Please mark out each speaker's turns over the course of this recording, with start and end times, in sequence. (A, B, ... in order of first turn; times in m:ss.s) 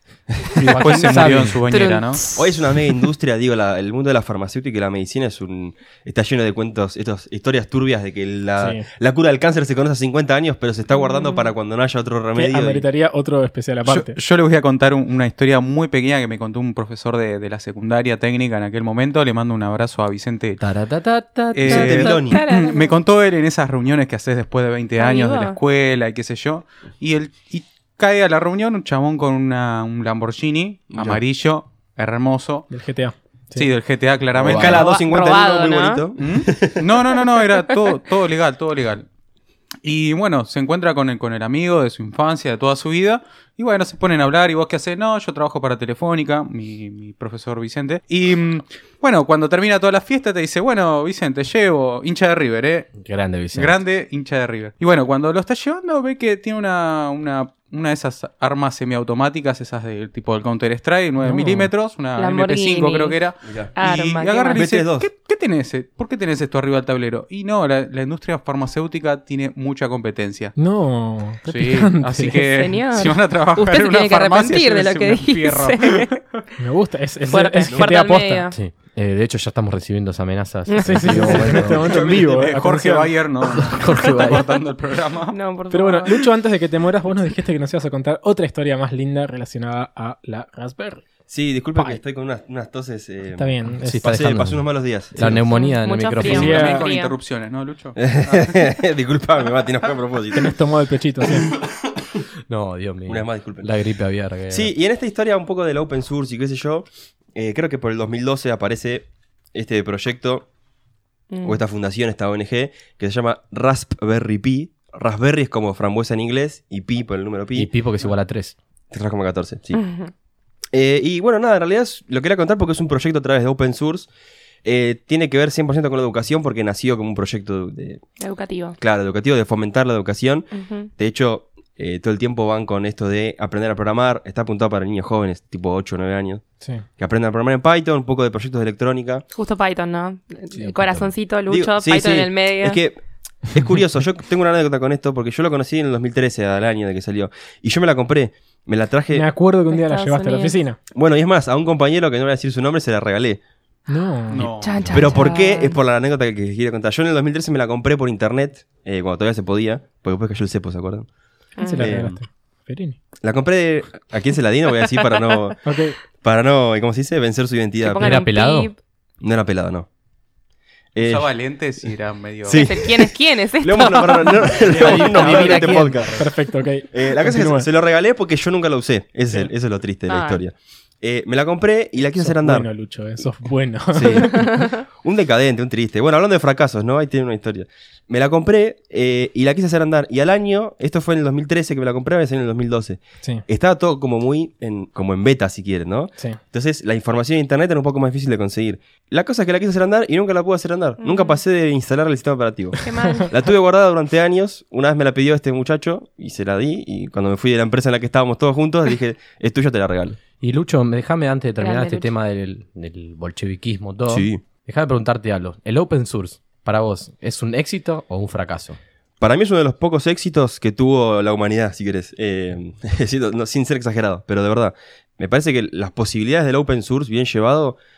0:00.4-0:00.7 A
0:00.6-0:01.6 B
0:00.7-0:02.2 C
0:01.7-0:03.0 D
0:02.4-0:12.8 A
0:08.6-0:08.8 E
0:10.9-0:11.5 D
0:12.4-0:14.2 E
0:13.8-0:20.6 C
0:20.6-0:22.2 B
0:21.5-0:32.7 C
0:21.7-0:22.4 A
0:21.8-0:22.9 D
0:25.0-0:25.6 D
0:30.9-0:31.2 A
0:32.7-0:33.7 E
0:33.6-0:34.9 C
0:34.4-0:36.8 A
0:34.4-0:34.8 B
0:34.6-0:36.0 D
0:36.2-0:39.0 C
0:39.8-0:53.0 C
0:53.0-0:53.8 B
0:53.5-1:10.6 C
1:01.2-1:01.7 E
1:02.2-1:04.6 D
1:03.4-1:03.7 A
1:04.6-1:05.1 A
1:10.6-1:12.4 E
1:11.5-1:16.2 C
1:12.4-1:16.2 D
1:16.6-1:18.5 E
1:17.3-1:18.6 D
1:18.5-1:21.9 B
1:20.7-1:21.5 D
1:20.8-1:23.1 E
1:21.8-1:25.3 C
1:21.8-1:22.3 A
1:23.6-1:24.4 B
1:25.3-1:26.3 D
1:25.7-1:31.0 E
1:31.3-1:35.4 A
1:33.4-1:34.0 E
1:33.8-1:36.7 B
1:35.5-1:37.1 D
1:36.2-1:38.6 C
1:36.3-1:36.8 E
1:38.0-1:40.6 A
1:40.3-1:41.5 E
1:42.5-1:44.7 B
1:43.1-1:43.7 A
1:44.5-1:50.4 A
1:51.3-1:51.6 D
1:51.4-1:57.7 A
1:57.5-1:58.5 B
1:58.9-1:59.8 A
1:59.7-2:00.1 D
2:00.7-2:04.1 A
2:04.6-2:08.0 A
2:08.2-2:08.8 D
2:08.8-2:16.4 A
2:10.5-2:10.9 D
2:17.0-2:19.2 A
2:19.3-2:22.8 D
2:20.5-2:21.1 B
2:21.5-2:29.3 A
2:29.1-2:30.8 E
2:29.7-2:30.6 D
2:30.9-2:33.4 A
2:33.9-2:34.5 E
2:34.3-2:35.0 C
2:34.6-2:35.8 D
2:34.9-2:41.1 A
2:41.6-2:41.9 D
2:41.6-2:43.0 E
2:41.8-2:42.1 A
2:43.2-2:45.6 A
2:45.6-2:46.0 E
2:46.2-2:48.1 A
2:47.8-2:48.8 D
2:48.0-2:48.7 B
2:49.2-2:49.9 A
2:50.9-2:51.3 A
2:51.0-2:52.6 C
2:52.4-2:56.3 A
2:52.5-2:55.8 D
2:54.6-2:57.7 E
2:54.9-2:55.9 B
2:56.9-3:02.7 A
3:00.1-3:00.4 D
3:02.2-3:04.5 E
3:03.9-3:30.2 A
3:04.3-3:04.8 D
3:21.0-3:21.4 D
3:22.8-3:23.3 D
3:30.4-3:38.8 B
3:31.6-3:32.1 D
3:34.1-3:34.4 A
3:39.2-3:47.8 A